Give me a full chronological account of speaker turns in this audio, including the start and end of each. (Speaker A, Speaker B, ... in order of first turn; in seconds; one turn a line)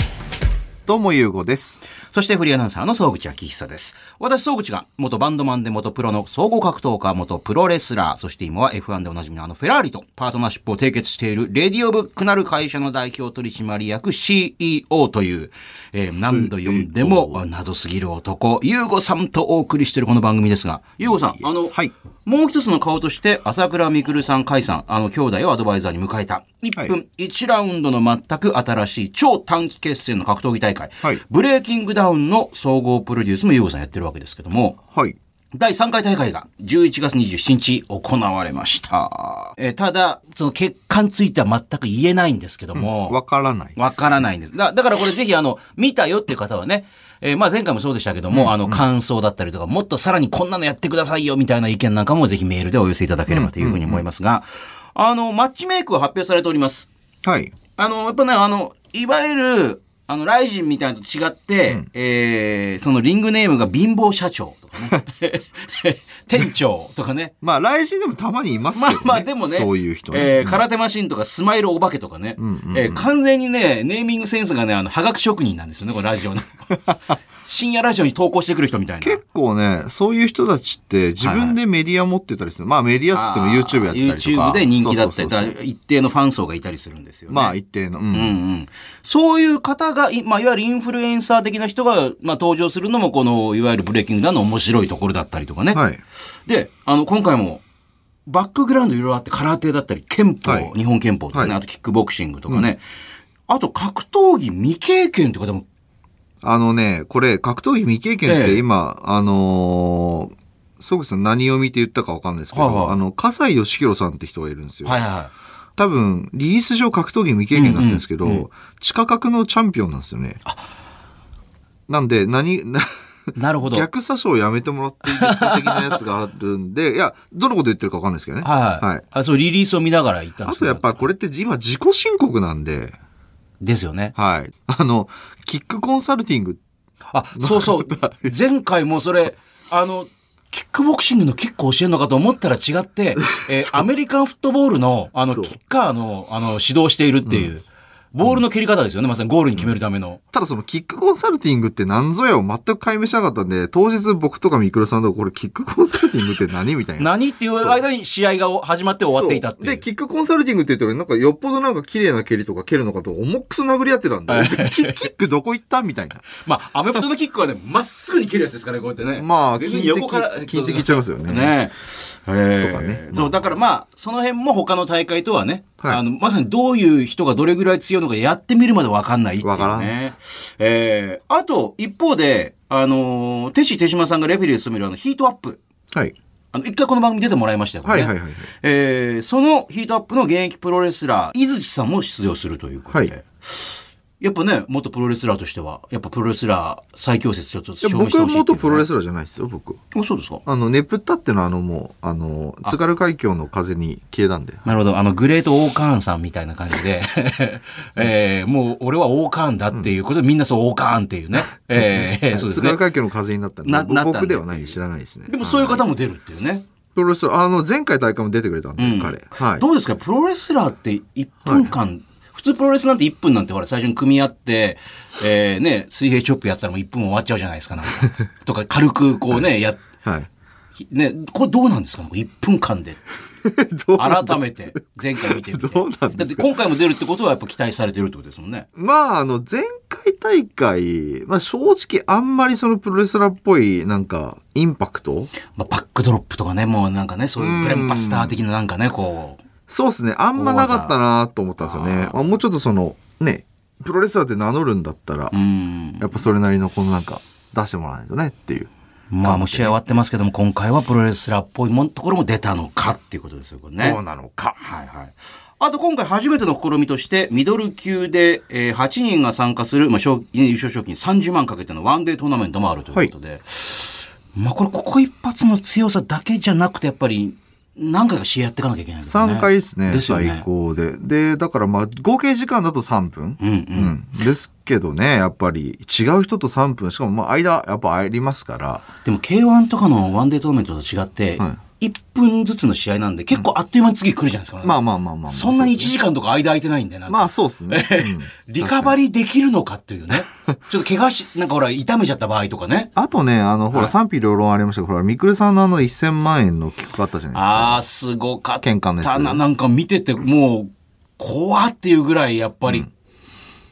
Speaker A: 0.8-1.8
Speaker B: 2.1-34.8
Speaker A: 16.1-17.4
Speaker A: 21.4-21.9
Speaker B: 35.5-43.2
Speaker A: 42.7-44.3
Speaker B: 43.8-56.9
Speaker A: 48.3-48.8
Speaker A: 53.3-54.0
Speaker A: 57.2-57.5
Speaker B: 57.8-67.3
Speaker A: 67.4-70.6
Speaker B: 68.7-76.8
Speaker A: 72.4-73.1
Speaker B: 77.4-79.2
Speaker A: 79.0-85.5
Speaker B: 81.2-81.5
Speaker B: 83.1-87.5
Speaker A: 87.3-88.3
Speaker B: 88.1-95.8
Speaker A: 95.7-96.0
Speaker B: 96.5-97.6
Speaker B: 98.3-102.8
Speaker A: 100.4-100.7
Speaker B: 103.5-105.7
Speaker A: 106.4-115.0
Speaker B: 108.2-108.6
Speaker B: 112.5-113.0
Speaker B: 114.8-115.3
Speaker A: 115.8-120.4
Speaker B: 117.5-118.5
Speaker A: 121.9-122.9
Speaker B: 123.3-123.9
Speaker A: 123.6-129.0
Speaker B: 125.1-126.0
Speaker B: 128.4-131.1
Speaker A: 130.4-132.9
Speaker B: 133.6-134.1
Speaker A: 134.1-136.6
Speaker B: 137.1-150.2
Speaker A: 137.4-138.3
Speaker A: 143.4-143.9
Speaker A: 145.2-145.5
Speaker A: 150.3-157.8
Speaker B: 157.0-159.8
Speaker A: 159.1-166.2
Speaker B: 164.3-165.1
Speaker B: 166.3-185.6
Speaker A: 169.1-171.6
Speaker A: 172.6-173.4
Speaker A: 179.4-180.1
Speaker B: 186.5-198.9
Speaker A: 187.8-188.5
Speaker A: 197.8-199.8
Speaker B: 199.9-200.4
Speaker A: 200.4-204.6
Speaker B: 204.6-212.8
Speaker A: 211.4-215.8
Speaker B: 213.6-216.6
Speaker A: 216.9-219.7
Speaker B: 218.8-229.8
Speaker A: 221.4-221.7
Speaker B: 230.8-233.0
Speaker A: 233.4-234.4
Speaker B: 234.0-238.7
Speaker A: 235.2-236.5
Speaker A: 238.8-245.3
Speaker B: 245.5-249.4
Speaker A: 247.4-248.4
Speaker A: 249.7-255.4
Speaker B: 250.3-250.9
Speaker B: 251.6-252.1
Speaker B: 255.3-256.1
Speaker A: 256.0-258.7
Speaker B: 259.1-264.0
Speaker A: 259.2-259.8
Speaker A: 263.8-264.6
Speaker B: 264.6-280.4
Speaker A: 279.1-288.9
Speaker B: 283.4-284.0
Speaker B: 289.0-294.8
Speaker A: 294.6-295.9
Speaker B: 295.3-302.9
Speaker A: 297.1-299.0
Speaker A: 302.9-307.8
Speaker B: 307.3-312.9
Speaker A: 308.6-309.4